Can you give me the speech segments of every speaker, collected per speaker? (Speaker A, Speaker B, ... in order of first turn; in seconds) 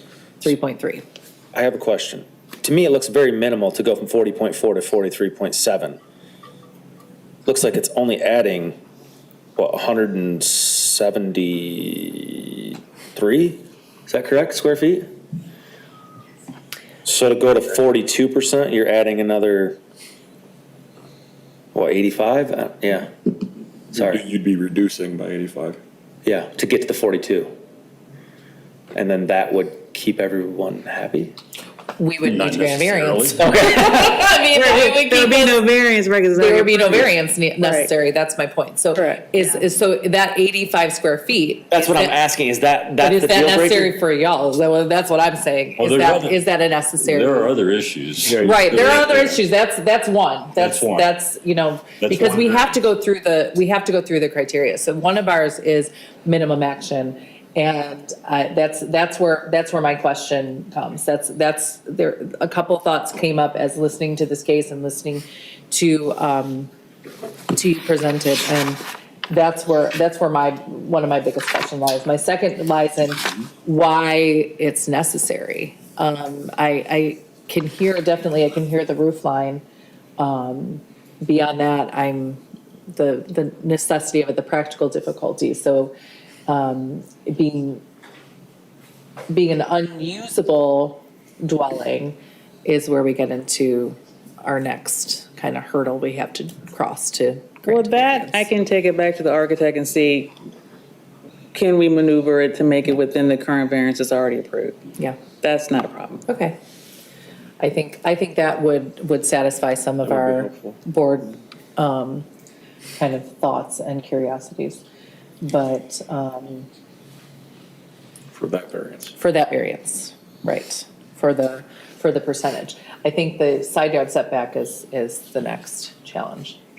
Speaker A: 0.4-1.0, 32.0-35.7, 36.3-42.2, 43.0-47.5, 48.4-66.7, 67.5-79.6, 80.2-82.4, 82.9-85.9, 86.5-87.8, 89.3-98.5, 106.3-106.6, 107.6-112.3, 113.0-114.8, 115.4-116.7, 119.2-126.6
Speaker B: 1.5-6.0, 7.5-8.8, 9.6-15.1, 17.1-19.8, 21.7-23.3, 23.9-24.2, 26.2-27.5, 28.9-31.4, 32.6-34.0, 41.7-44.0
Speaker C: 23.9-25.8, 110.0-110.8, 118.3-119.2
Speaker D: 32.3-32.8, 45.8-46.4, 47.0-49.4, 50.6-51.1, 52.0-52.6
Speaker E: 33.6-37.9, 39.0-39.4, 97.7-100.3, 101.5-104.8, 105.3-106.2